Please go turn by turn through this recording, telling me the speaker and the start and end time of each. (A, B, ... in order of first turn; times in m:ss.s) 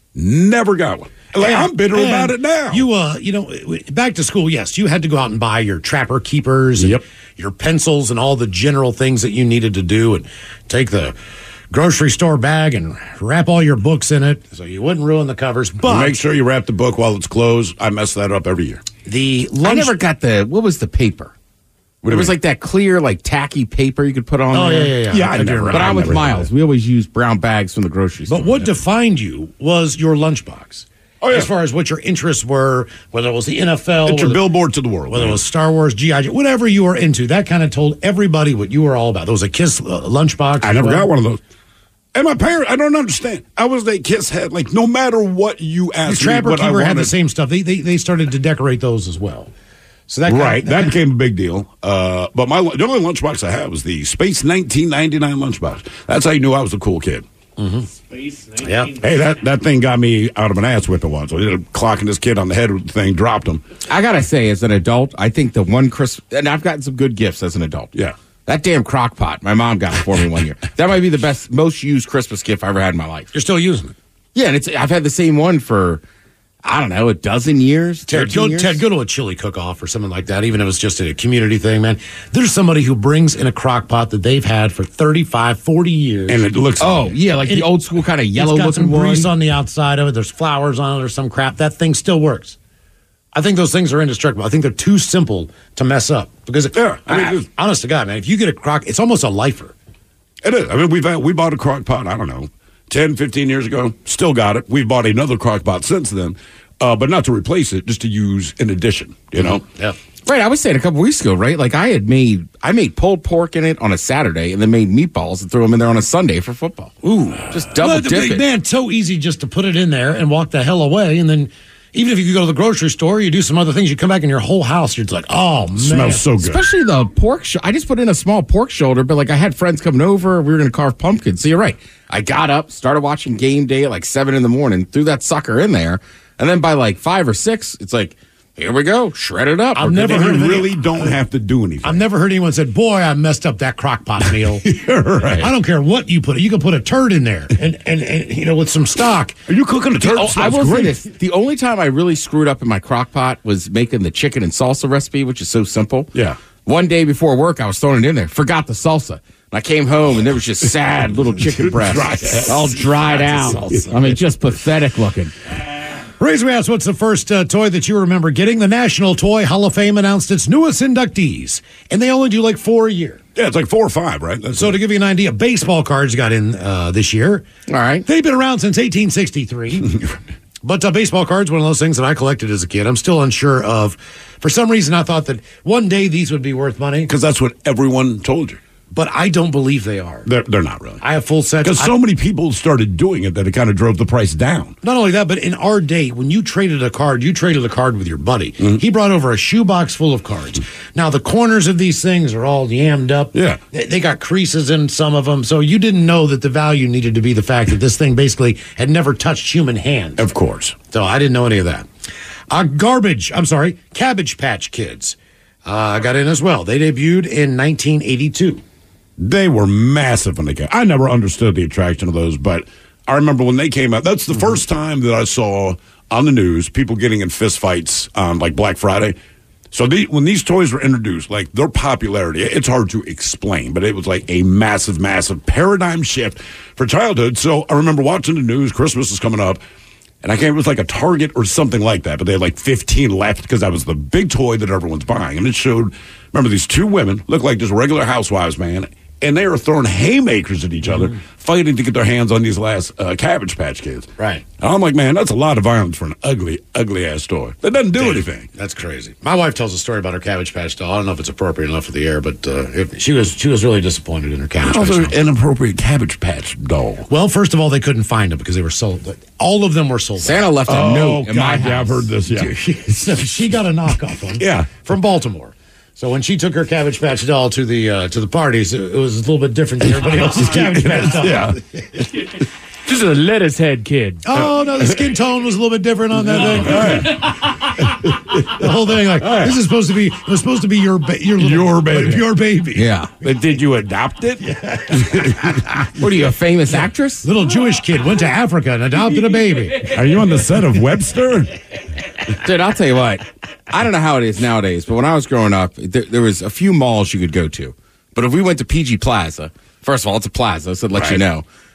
0:00.1-0:02.8 A
0:01.4-0:11.1 B
0:06.8-0:07.0 A
0:11.7-0:16.2 B
0:15.8-0:18.8 A
0:19.0-0:20.0 B
0:19.6-0:21.3 C
0:22.0-0:22.3 A
0:22.1-0:25.0 C
0:24.5-0:26.4 B
0:25.1-0:26.5 A
0:25.7-0:28.7 C
0:28.3-0:34.4 B
0:31.2-0:31.5 A
0:34.0-0:35.4 A
0:35.1-0:41.1 B
0:40.6-0:41.4 A
0:42.1-0:47.1 A
0:46.0-0:49.5 B
0:50.1-0:51.0 B
0:50.3-0:57.2 A
0:57.6-0:57.9 B
0:58.1-0:58.6 D
0:58.6-0:58.9 B
0:59.0-1:03.6 A
1:03.9-1:07.9 C
1:08.4-1:13.3 C
1:13.3-1:13.9 B
1:14.3-1:16.0 C
1:16.6-1:18.8 C
1:18.1-1:26.4 B
1:26.3-1:27.2 A
1:26.8-1:29.3 C
1:28.3-1:32.6 B
1:33.3-1:39.7 B
1:36.7-1:37.5 A
1:40.4-1:49.6 A
1:50.2-1:56.9 C
1:57.0-2:06.2 B
1:57.5-1:58.4 C
2:05.8-2:06.6 A
2:06.4-2:20.2 C
2:19.7-2:21.2 B
2:20.0-2:22.0 A
2:21.8-2:24.7 B
2:24.6-2:25.5 A
2:25.4-2:29.4 B
2:29.5-2:31.0 A
2:30.0-2:36.1 C
2:36.6-2:45.3 C
2:41.4-2:44.1 A
2:42.5-2:44.1 B
2:46.2-2:53.2 B
2:53.4-2:54.8 A
2:54.6-2:57.5 B
2:57.7-2:58.0 C
2:58.0-2:59.9 B
3:00.6-3:07.1 B
3:07.1-3:08.6 A
3:08.9-3:10.3 B
3:10.2-3:11.0 A
3:11.0-3:11.9 B
3:11.6-3:14.8 A
3:14.8-3:30.3 B
3:23.3-3:23.6 A
3:30.2-3:30.7 A
3:30.8-3:31.9 B
3:32.5-3:38.6 B
3:39.2-3:49.2 A
3:49.7-3:59.6 A
4:00.2-4:18.5 A
4:14.2-4:14.4 B
4:17.9-4:25.2 B
4:24.6-4:27.1 A
4:27.1-4:30.6 B
4:30.2-4:32.1 C
4:30.7-4:32.5 A
4:32.4-4:41.8 B
4:34.4-4:34.8 A
4:39.9-4:41.6 A
4:42.8-4:44.3 D
4:44.2-4:47.3 B
4:46.3-4:47.3 A
4:48.0-4:48.5 A
4:48.4-4:52.9 B
4:49.2-4:49.6 A
4:51.4-4:52.3 A
4:52.7-4:53.1 C
4:53.2-4:55.8 A
4:56.0-4:57.3 C
4:57.2-5:00.0 B
4:59.8-5:01.5 A
5:02.3-5:11.4 C
5:10.9-5:11.2 A